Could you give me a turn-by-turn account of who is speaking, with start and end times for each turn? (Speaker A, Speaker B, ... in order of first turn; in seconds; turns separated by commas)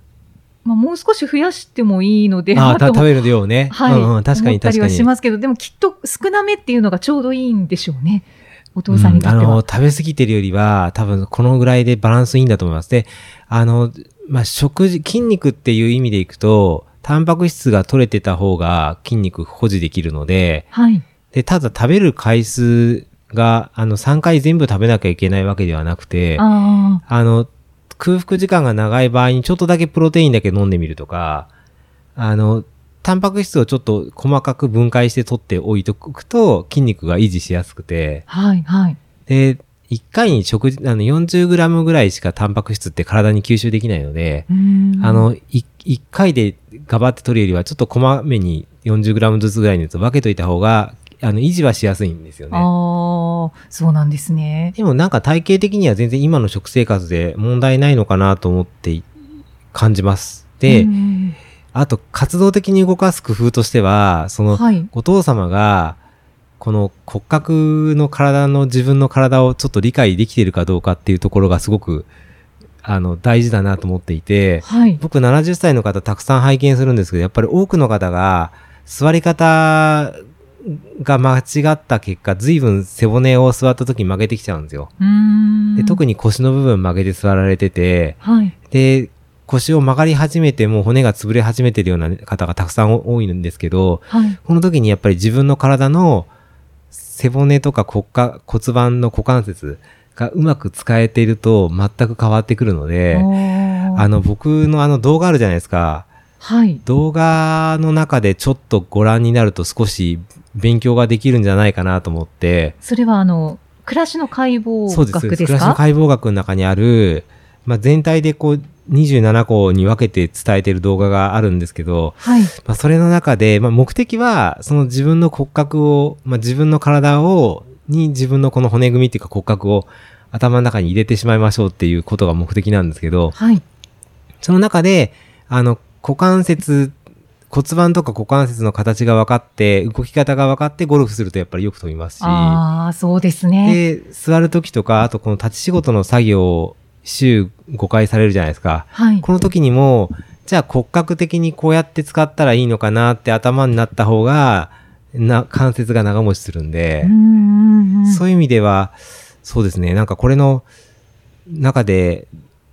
Speaker A: 0.6-3.1, Speaker B: 2.5-5.1, Speaker A: 3.7-9.6, Speaker B: 8.9-20.7, Speaker A: 20.7-21.0, Speaker B: 21.3-26.4, Speaker A: 26.4-27.0, Speaker B: 27.1-31.5, Speaker B: 32.1-38.2, Speaker A: 38.3-39.0, Speaker B: 39.3-44.5, Speaker A: 44.5-45.3, Speaker B: 45.0-52.7, Speaker A: 52.5-54.7, Speaker B: 54.8-59.1, Speaker B: 59.7-60.9, Speaker A: 60.7-61.4, Speaker B: 61.7-66.0, Speaker A: 64.5-64.9, Speaker B: 66.6-72.1, Speaker B: 72.8-84.9, Speaker A: 74.6-75.0, Speaker A: 85.0-86.0, Speaker B: 85.8-88.2, Speaker A: 88.2-88.5, Speaker B: 88.7-96.3, Speaker A: 94.1-94.4, Speaker B: 96.9-103.3, Speaker A: 103.1-104.1, Speaker B: 103.9-106.1, Speaker A: 106.4-106.8, Speaker B: 106.8-112.7, Speaker A: 112.8-115.8, Speaker B: 114.9-133.3, Speaker A: 122.2-122.5, Speaker A: 133.3-133.6, Speaker B: 134.4-137.0, Speaker B: 137.5-142.6, Speaker A: 142.2-143.8, Speaker B: 143.6-157.1, Speaker A: 148.9-149.2, Speaker A: 157.0-158.2, Speaker B: 158.0-160.6, Speaker B: 161.5-162.3